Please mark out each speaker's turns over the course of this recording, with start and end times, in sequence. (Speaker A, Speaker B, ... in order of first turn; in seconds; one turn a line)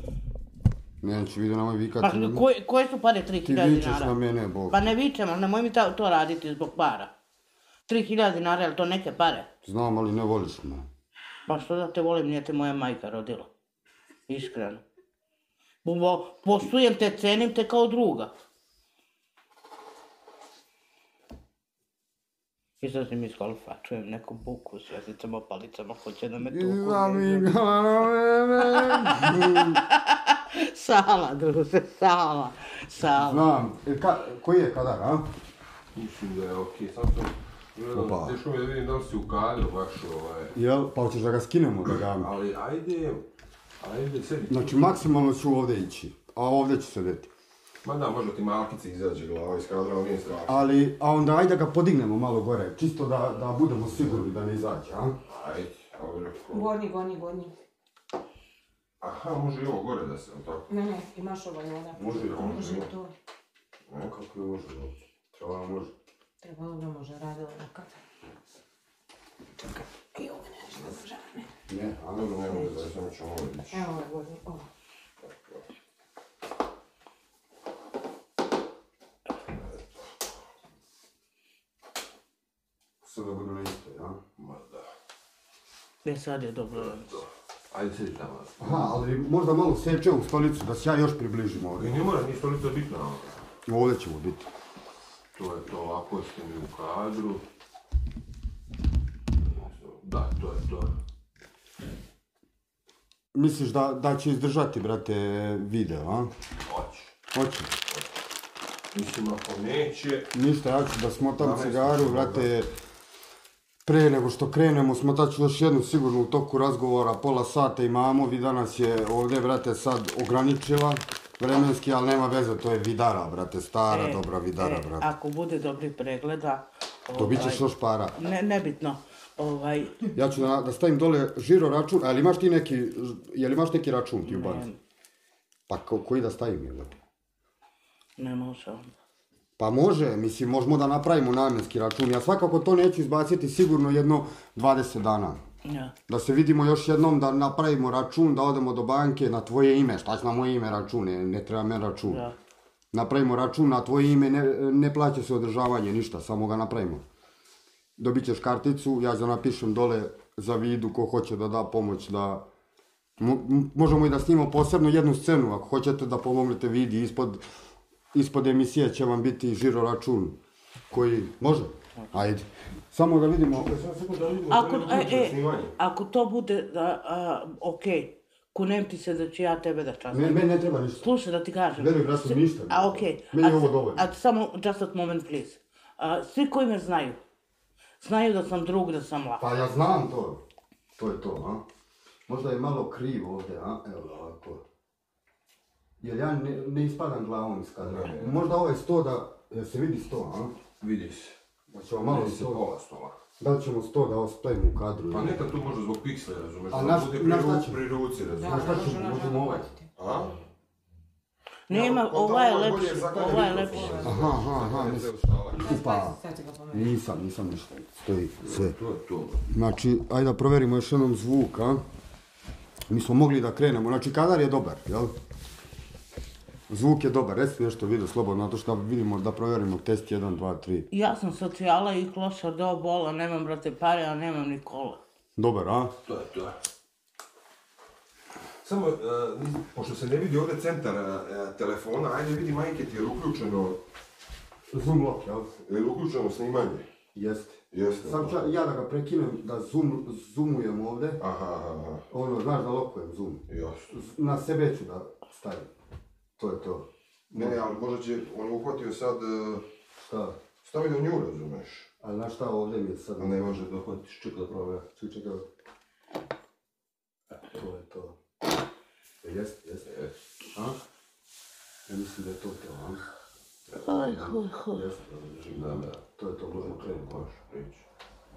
Speaker A: 1.0-2.5
Speaker B: 2.0-4.2
Speaker A: 3.5-4.9
Speaker B: 4.7-7.1
Speaker B: 7.9-9.5
Speaker A: 9.6-10.9
Speaker B: 11.5-13.5
Speaker B: 14.3-14.8
Speaker B: 15.8-18.3
Speaker B: 22.8-27.5
Speaker A: 26.4-29.8
Speaker B: 28.6-33.5
Speaker A: 33.1-35.3
Speaker C: 36.0-40.5
Speaker A: 37.9-38.4
Speaker A: 40.5-42.3
Speaker C: 42.1-43.2
Speaker C: 43.8-45.0
Speaker A: 44.5-47.3
Speaker C: 47.8-50.6
Speaker A: 50.5-55.2
Speaker C: 55.3-56.7
Speaker D: 56.5-57.5
Speaker C: 59.0-60.7
Speaker D: 60.7-63.1
Speaker A: 62.0-62.5
Speaker C: 62.1-62.9
Speaker A: 64.0-65.9
Speaker D: 66.4-68.0
Speaker D: 69.6-71.5
Speaker A: 71.7-72.9
Speaker C: 72.1-73.9
Speaker D: 73.7-74.7
Speaker C: 75.2-75.6
Speaker A: 83.0-84.2
Speaker C: 84.4-84.8
Speaker B: 86.0-87.2
Speaker C: 86.9-88.9
Speaker A: 88.6-92.0
Speaker C: 91.7-93.4
Speaker A: 93.7-94.5
Speaker C: 95.3-97.4
Speaker C: 99.5-100.9
Speaker A: 103.3-106.3
Speaker C: 106.7-107.1
Speaker A: 107.3-107.8
Speaker C: 108.9-110.3
Speaker A: 110.3-112.7
Speaker C: 111.4-112.5
Speaker A: 113.8-125.1
Speaker B: 123.9-130.1
Speaker A: 127.1-128.2
Speaker A: 130.1-134.7
Speaker B: 134.2-134.8
Speaker A: 135.7-136.9
Speaker B: 138.2-138.9
Speaker A: 139.6-145.4
Speaker B: 145.6-145.9
Speaker A: 146.1-152.2
Speaker B: 152.1-152.3
Speaker A: 152.9-157.0
Speaker A: 158.0-162.4
Speaker A: 163.2-167.4
Speaker A: 168.1-170.4
Speaker A: 170.9-173.7
Speaker C: 173.5-175.7
Speaker B: 174.5-180.5
Speaker A: 180.1-181.1
Speaker B: 181.0-187.2
Speaker A: 181.8-184.0
Speaker B: 188.0-189.4
Speaker A: 189.4-190.4
Speaker A: 191.0-191.6
Speaker A: 192.3-194.6
Speaker A: 196.0-200.6
Speaker C: 197.8-198.4
Speaker C: 200.8-201.3
Speaker A: 201.7-202.6
Speaker C: 202.1-203.2
Speaker A: 203.4-205.4
Speaker C: 205.1-209.0
Speaker A: 206.7-207.8
Speaker D: 208.3-209.9
Speaker A: 208.4-209.7
Speaker C: 209.9-210.4
Speaker B: 211.7-214.1
Speaker C: 211.7-215.8
Speaker D: 213.2-214.2
Speaker A: 214.0-216.2
Speaker D: 215.6-216.9
Speaker A: 216.7-218.8
Speaker C: 218.4-219.4
Speaker A: 219.5-221.8
Speaker A: 222.9-225.1
Speaker A: 226.7-230.9
Speaker B: 230.9-235.0
Speaker A: 235.4-235.9
Speaker C: 236.1-236.6
Speaker C: 238.6-243.8
Speaker A: 244.7-245.5
Speaker C: 245.6-246.8
Speaker A: 247.1-251.2
Speaker C: 247.7-248.4
Speaker C: 251.2-252.1
Speaker A: 252.1-255.7
Speaker C: 253.5-253.9
Speaker A: 256.4-257.6
Speaker C: 257.3-259.6
Speaker A: 260.0-260.4
Speaker C: 260.6-261.9
Speaker A: 262.0-263.7
Speaker C: 263.2-264.8
Speaker A: 264.8-265.4
Speaker A: 267.5-268.2
Speaker A: 269.2-269.9
Speaker C: 269.9-270.1
Speaker A: 271.9-273.0
Speaker B: 273.7-274.8
Speaker A: 274.1-277.2
Speaker C: 275.5-277.8